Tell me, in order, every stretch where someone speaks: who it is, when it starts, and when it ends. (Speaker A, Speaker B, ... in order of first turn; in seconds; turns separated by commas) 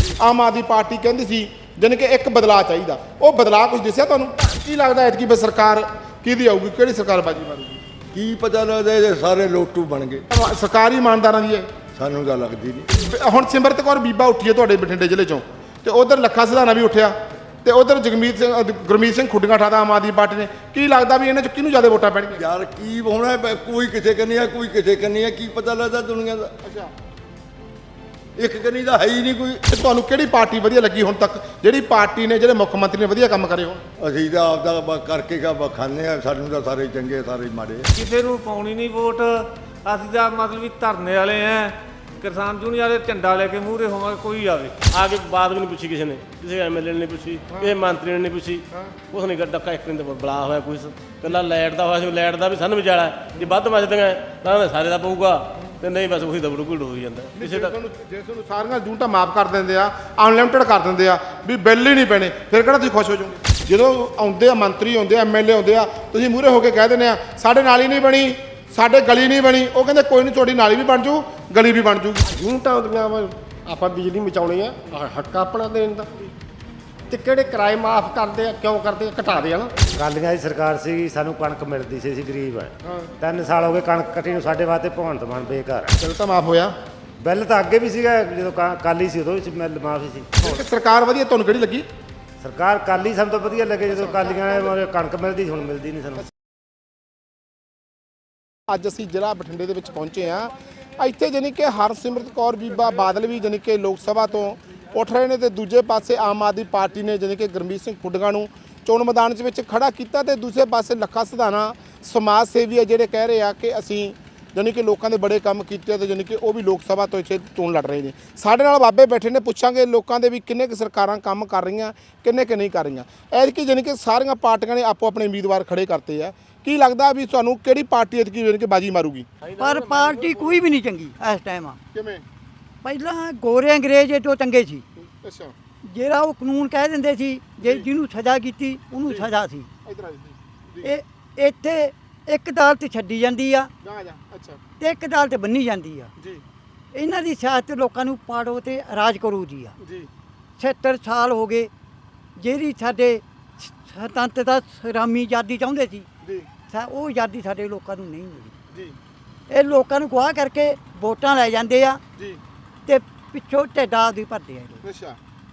Speaker A: 0.2-7.8, Speaker B: 8.1-10.2, Speaker A: 10.3-11.7, Speaker B: 12.0-12.9, Speaker A: 12.9-22.4, Speaker B: 22.3-26.5, Speaker A: 26.6-26.9, Speaker B: 28.4-29.6, Speaker A: 29.7-33.8, Speaker B: 34.0-37.9, Speaker C: 37.9-44.9, Speaker D: 44.9-57.7, Speaker A: 47.5-47.8, Speaker A: 57.4-72.3, Speaker E: 72.4-76.1, Speaker E: 77.1-79.7, Speaker F: 80.0-86.0, Speaker A: 82.8-83.1, Speaker A: 86.0-86.7, Speaker F: 87.2-90.6, Speaker A: 90.4-91.9, Speaker F: 92.4-96.2, Speaker A: 98.7-129.3, Speaker G: 129.6-131.8, Speaker A: 131.9-132.2, Speaker G: 132.8-134.8, Speaker A: 135.0-135.5, Speaker G: 135.8-139.7, Speaker A: 139.8-140.9, Speaker G: 140.8-143.7, Speaker A: 143.8-144.6, Speaker G: 144.8-146.1, Speaker A: 146.2-146.4, Speaker G: 146.9-149.8, Speaker A: 149.8-150.1, Speaker G: 150.6-151.7, Speaker G: 152.4-156.1, Speaker G: 156.7-158.5, Speaker G: 159.5-162.0, Speaker G: 162.9-164.8, Speaker A: 164.8-165.2